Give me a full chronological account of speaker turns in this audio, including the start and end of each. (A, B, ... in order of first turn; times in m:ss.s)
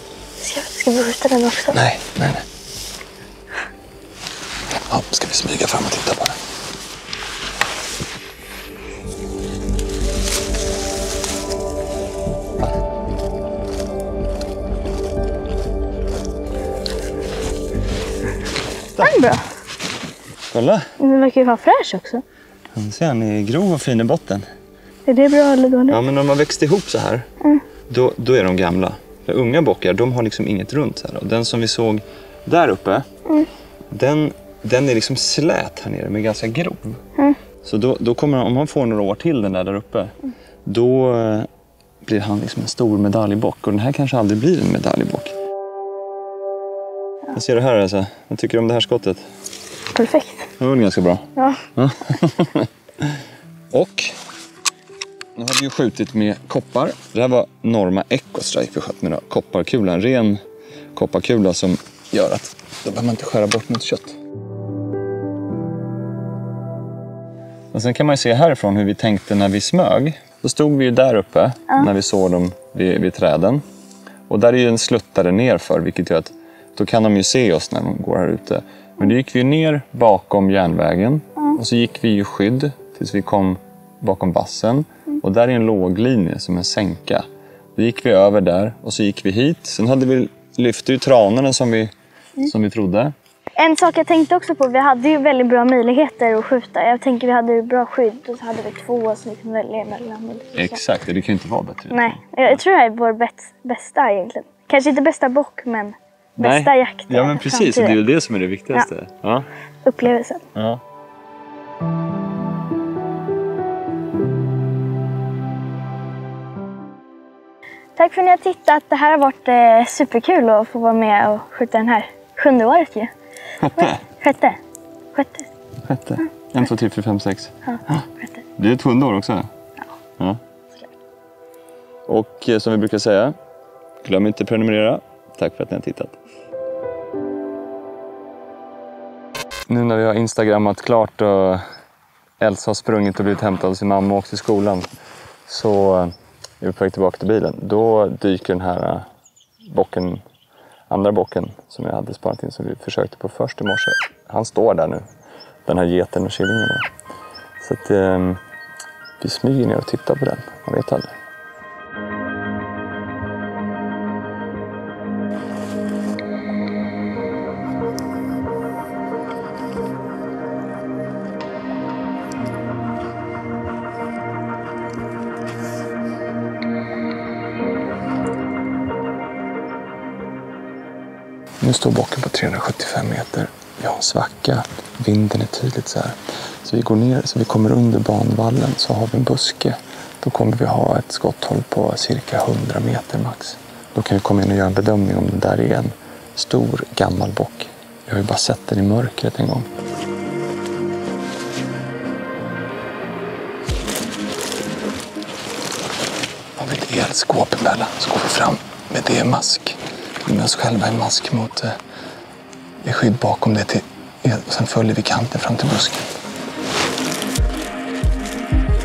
0:00.4-0:01.8 A
0:01.7-0:02.4 B
0:04.9-0:06.4 B
0:19.0-0:19.5 A
0:20.5-0:20.9 B
0:21.0-0:22.2 A
0:22.7-0:24.5 B
0:25.0-0:26.0 A
0:25.9-0:27.3 B
0:27.9-0:33.1 B
0:33.9-0:37.0 B
0:37.6-0:40.1 B
0:40.6-0:41.5 B
0:42.0-0:45.3 B
0:47.3-0:49.2 B
0:49.9-0:50.5 A
0:50.6-0:53.1 B
0:51.4-0:51.6 A
0:53.7-0:54.2 B
0:55.4-1:00.4 B
1:00.9-1:04.2 B
1:07.7-1:13.6 B
1:14.3-1:27.2 B
1:27.8-1:33.1 B
1:33.6-1:40.8 A
1:40.5-1:42.6 B
1:41.9-1:48.0 A
1:46.4-1:49.4 B
1:49.8-1:50.4 A
1:50.5-1:50.8 B
1:58.0-2:03.1 A
2:03.6-2:04.0 B
2:03.8-2:04.6 A
2:05.1-2:05.5 A
2:05.8-2:08.0 B
2:08.6-2:09.5 B
2:12.1-2:13.4 B
2:14.0-2:16.2 B
2:19.7-2:21.6 B
2:22.4-2:24.9 B
2:25.5-2:29.0 B
2:29.7-2:30.2 B
2:30.9-2:35.0 B
2:35.6-2:36.9 B
2:37.6-2:38.4 B
2:39.2-2:41.1 B
3:01.6-3:19.7 B
3:26.6-3:31.8 B
3:32.8-3:36.1 B